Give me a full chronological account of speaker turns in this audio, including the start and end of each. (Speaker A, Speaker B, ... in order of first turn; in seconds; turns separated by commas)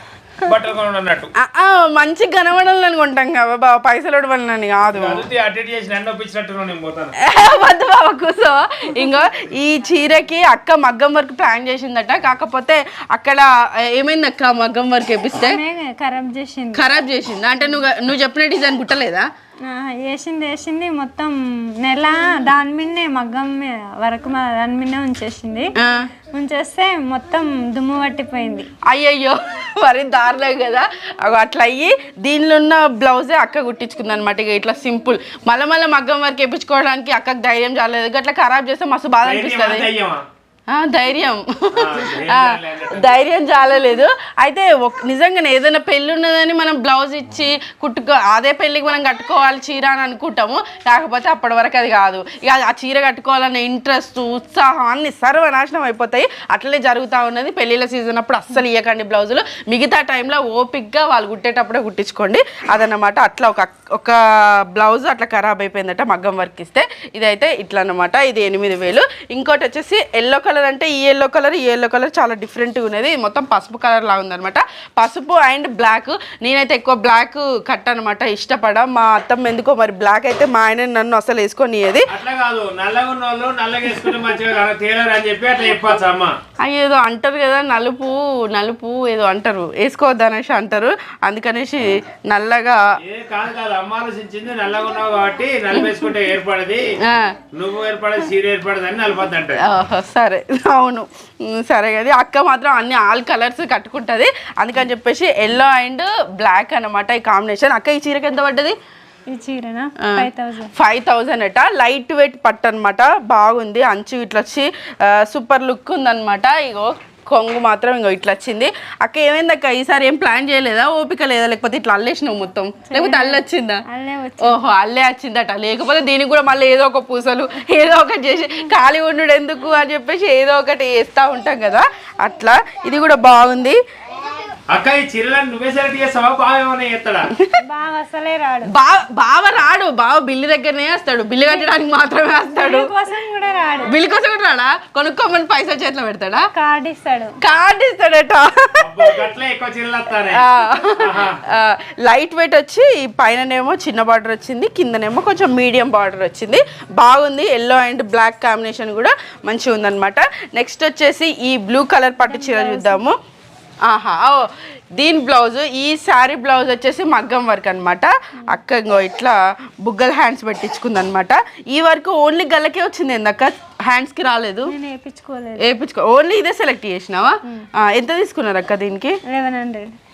Speaker A: 0.4-1.3, Speaker B: 1.4-5.2, Speaker A: 4.9-7.1, Speaker B: 7.2-15.6, Speaker C: 15.4-16.9, Speaker B: 16.7-19.3, Speaker C: 19.6-25.7, Speaker B: 25.8-26.1, Speaker C: 26.3-28.7, Speaker B: 28.9-39.9, Speaker A: 39.2-40.2, Speaker B: 40.7-82.1, Speaker A: 41.8-43.2, Speaker A: 82.1-86.4, Speaker B: 86.6-92.8, Speaker A: 93.0-96.9, Speaker B: 95.7-96.0, Speaker B: 97.0-97.4, Speaker A: 97.5-99.6, Speaker B: 99.6-108.8, Speaker C: 109.3-110.7, Speaker B: 110.0-123.8, Speaker C: 122.9-124.6, Speaker B: 124.4-133.8, Speaker A: 134.7-137.3, Speaker B: 137.3-137.6, Speaker C: 137.6-138.7, Speaker B: 138.7-142.9, Speaker C: 142.6-144.0, Speaker B: 143.8-146.5, Speaker C: 146.5-147.4, Speaker B: 147.4-149.1, Speaker A: 148.8-150.4, Speaker B: 150.3-163.2, Speaker A: 151.0-151.4, Speaker C: 162.3-163.0, Speaker B: 163.8-174.7, Speaker C: 174.7-175.7, Speaker B: 175.6-179.2, Speaker C: 179.2-179.9